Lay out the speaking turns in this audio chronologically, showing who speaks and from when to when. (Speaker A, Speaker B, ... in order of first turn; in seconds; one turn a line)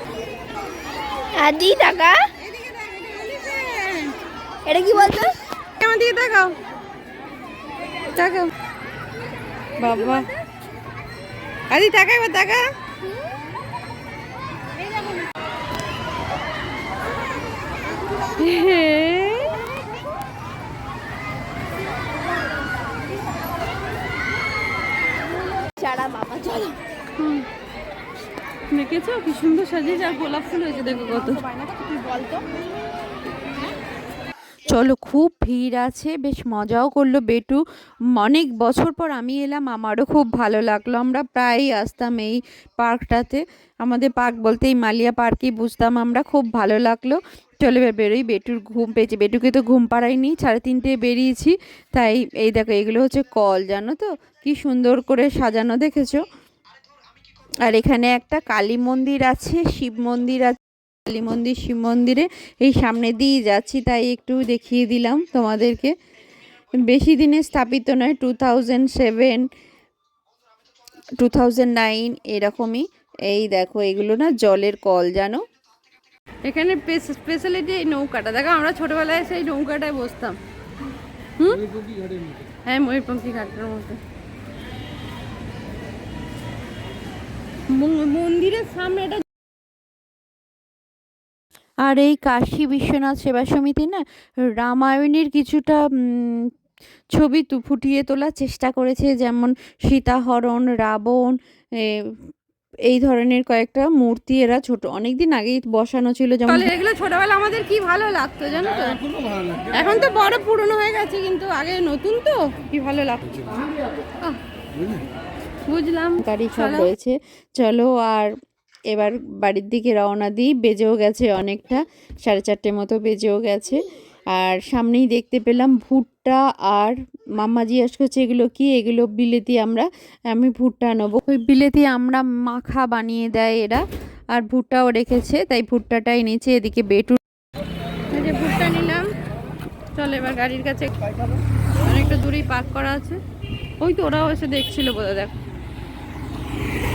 Speaker A: 1.3-2.3
Speaker B: 2.4-4.2
Speaker A: 4.6-5.4
Speaker B: 5.8-6.5
Speaker B: 8.1-8.5
Speaker B: 9.8-10.3
Speaker C: 9.8-10.3
Speaker B: 11.7-12.7
Speaker B: 18.4-19.6
Speaker A: 25.6-26.8
Speaker B: 27.2-27.4
Speaker B: 28.7-31.5
Speaker A: 31.8-32.4
Speaker C: 34.7-37.6
Speaker C: 38.1-56.2
Speaker C: 57.6-65.9
Speaker C: 66.8-69.5
Speaker C: 71.2-75.4
Speaker B: 76.4-80.4
Speaker B: 81.4-81.7
Speaker B: 82.6-84.0
Speaker B: 87.7-89.2
Speaker C: 91.8-94.0
Speaker C: 94.5-96.5
Speaker C: 97.2-102.2
Speaker C: 102.9-106.7
Speaker B: 106.5-109.1
Speaker B: 109.6-113.3
Speaker B: 115.7-116.9
Speaker C: 116.2-118.3
Speaker C: 118.9-133.8
Speaker C: 134.3-137.2
Speaker B: 138.1-139.0
Speaker B: 139.9-141.2
Speaker B: 141.8-143.2
Speaker B: 143.8-145.3